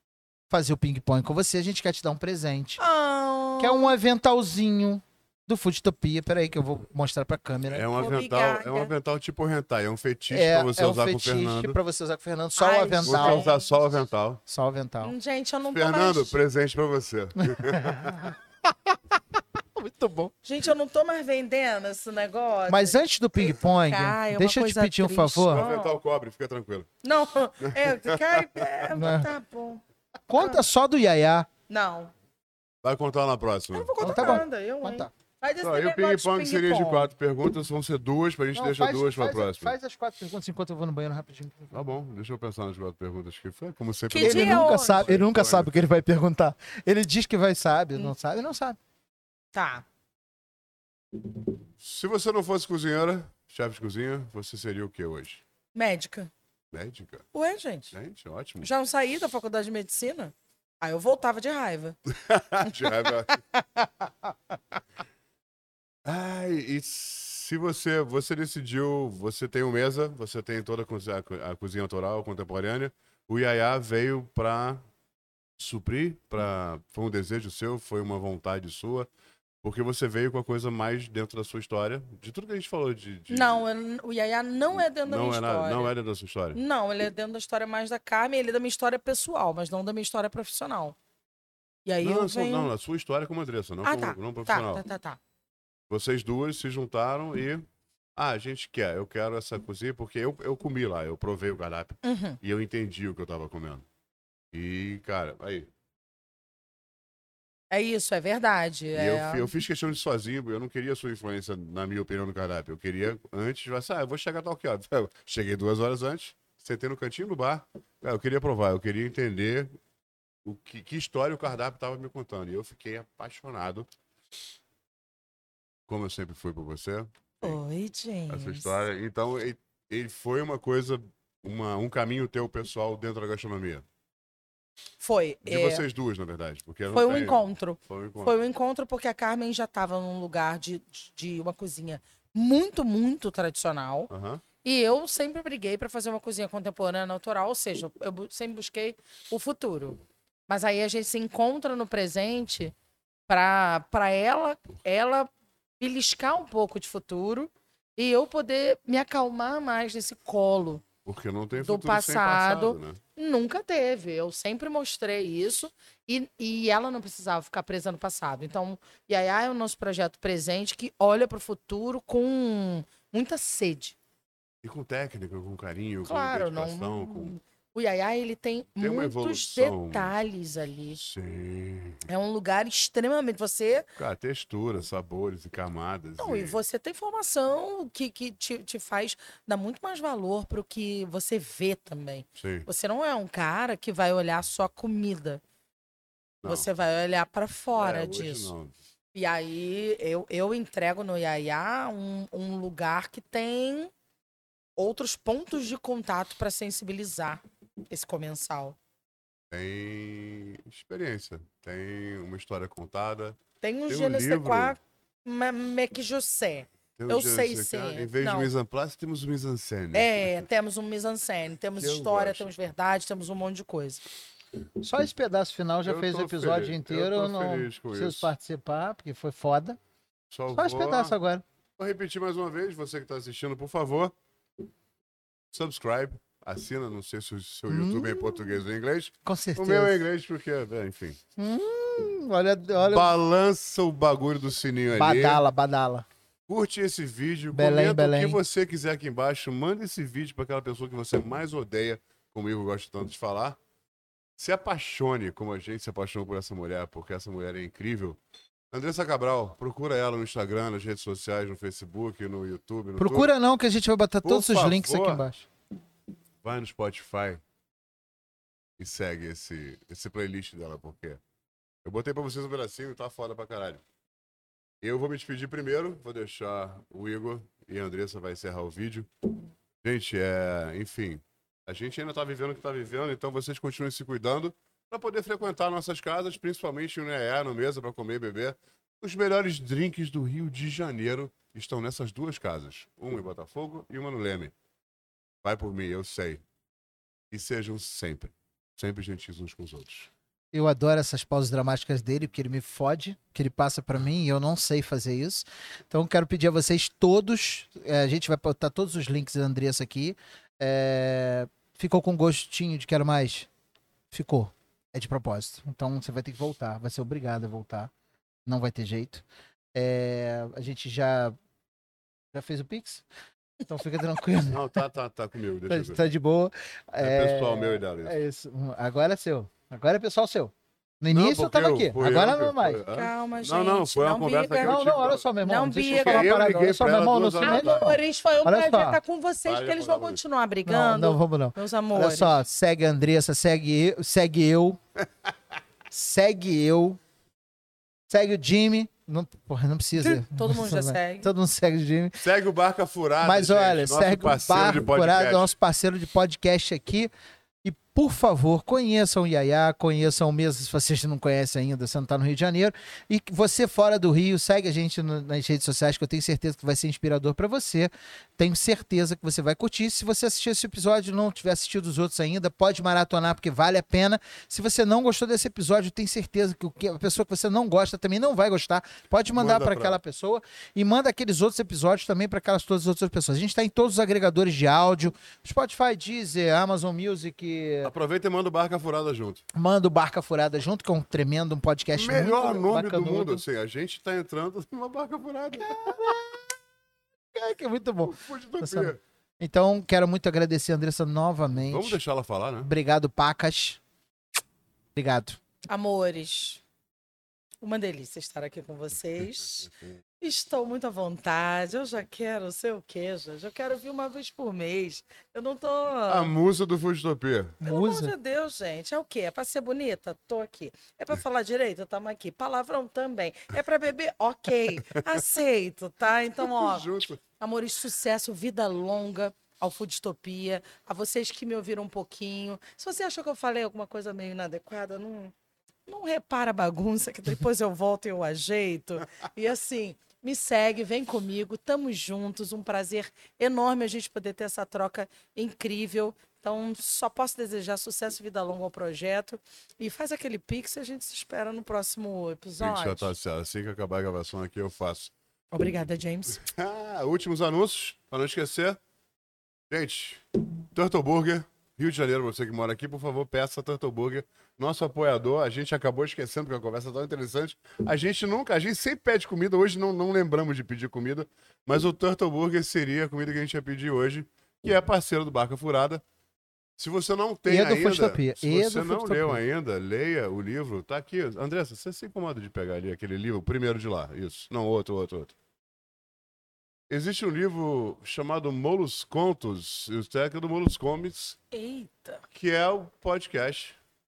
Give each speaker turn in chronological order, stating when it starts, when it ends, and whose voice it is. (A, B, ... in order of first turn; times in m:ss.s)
0:00.5-0:02.8 A
0:02.8-0:04.0 B
0:03.6-0:07.9 A
0:07.7-0:11.8 C
0:08.0-0:08.9 B
0:10.3-0:13.4 A
0:12.6-0:13.6 B
0:13.0-0:14.4 C
0:14.5-0:15.1 A
0:15.0-0:16.4 B
0:15.7-0:18.3 C
0:17.4-0:18.4 A
0:19.7-0:20.3 A
0:20.4-0:25.9 B
0:22.7-0:25.6 A
0:25.5-0:26.9 C
0:27.0-0:29.8 B
0:27.6-0:28.6 C
0:28.9-0:29.3 A
0:30.3-0:31.5 A
0:30.3-0:30.6 B
0:31.7-0:32.1 B
0:32.8-0:34.4 C
0:33.7-0:37.1 B
0:34.0-0:35.1 A
0:35.6-0:39.7 C
0:38.5-0:41.8 A
0:41.7-0:45.8 C
0:44.1-0:45.1 B
0:44.2-0:48.8 A
0:49.5-0:49.8 B
0:51.8-0:55.4 C
0:55.7-0:56.3 B
0:56.7-0:57.3 C
0:57.3-0:57.9 B
0:57.9-0:58.7 C
0:58.6-1:02.0 B
1:02.2-1:03.4 C
1:02.6-1:02.9 B
1:06.0-1:14.8 C
1:15.6-1:19.1 C
1:19.6-1:23.6 C
1:23.3-1:25.9 B
1:24.7-1:26.6 C
1:26.5-1:31.0 B
1:31.8-1:32.7 B
1:32.0-1:34.8 C
1:33.8-1:35.2 B
1:35.9-1:37.6 C
1:38.2-1:43.8 C
1:42.0-1:42.4 B
1:44.5-1:45.7 C
1:47.7-1:49.5 B
1:48.9-1:59.7 C
2:00.4-2:03.9 C
2:05.9-2:07.6 C
2:07.4-2:08.7 B
2:08.3-2:13.8 C
2:15.0-2:15.8 B
2:15.4-2:18.3 C
2:16.9-2:24.1 B
2:24.1-2:24.4 C
2:24.6-2:32.7 B
2:33.3-2:40.8 B
2:41.0-2:43.0 C
2:41.6-2:54.0 B
2:54.6-2:57.3 C
2:56.0-3:01.1 B
2:58.8-3:00.2 C
3:01.0-3:02.0 C
3:02.0-3:03.9 B
3:04.0-3:06.6 C
3:06.2-3:15.4 B
3:12.4-3:12.7 C
3:16.4-3:18.5 B
3:17.8-3:18.7 C
3:19.1-3:23.9 B
3:24.8-3:28.8 B
3:29.5-3:34.8 C
3:33.6-3:38.5 B
3:37.0-3:40.5 C
3:39.9-3:44.0 B
3:41.8-3:42.5 C
3:44.8-3:49.8 A
3:45.8-3:48.3 C
3:50.3-3:51.1 C
3:50.5-3:51.4 A
3:51.8-3:54.1 C
3:55.5-4:01.2 C
3:57.7-3:58.6 A
3:59.2-4:00.0 A
4:01.4-4:03.1 A
4:02.8-4:05.4 C
4:04.9-4:06.0 A
4:06.5-4:13.6 C
4:07.5-4:08.4 A
4:14.4-4:18.2 C
4:18.7-4:23.3 C
4:23.0-4:25.4 A
4:24.2-4:25.2 C
4:26.4-4:27.4 C
4:28.8-4:31.2 C
4:31.8-4:33.8 C
4:34.8-4:39.1 C
4:39.8-4:54.5 C
4:55.4-4:56.4 C
4:57.3-5:00.1 C
5:00.5-5:13.5 A
5:14.1-5:17.9 A
5:18.4-5:21.4 A
5:22.3-5:23.0 A
5:23.7-5:24.8 A
5:24.5-5:26.0 C
5:25.7-5:32.8 A
5:27.0-5:28.2 C
5:31.1-5:35.3 C
5:32.9-5:34.8 B
5:34.6-5:39.0 A
5:35.4-5:36.7 B
5:35.9-5:38.0 C
5:37.4-5:42.4 B
5:39.4-5:40.2 C
5:40.6-5:44.8 A
5:45.9-5:47.0 A
5:48.1-5:52.2 A
5:50.0-5:51.3 B
5:52.2-5:55.5 C
5:53.2-5:57.1 A
5:57.6-6:27.9 A
6:19.3-6:20.0 C
6:27.8-6:29.4 C
6:29.5-6:33.4 A
6:31.9-6:36.2 C
6:35.5-6:36.4 A
6:37.3-6:42.0 A
6:38.0-6:39.0 C
6:41.7-6:42.7 C
6:42.6-6:43.8 A
6:44.9-6:45.4 A
6:45.7-6:46.6 B
6:47.6-6:56.3 B
6:56.1-6:57.6 C
6:57.6-6:58.1 A
6:57.6-7:15.3 B
7:06.4-7:07.2 C
7:15.9-7:33.1 B
7:32.6-7:35.1 C
7:35.5-7:36.4 B
7:36.4-7:38.8 C
7:39.7-7:56.0 C
7:56.8-8:05.3 C
7:57.4-7:59.4 A
8:06.9-8:11.4 C
8:11.5-8:12.2 B
8:12.3-8:13.8 C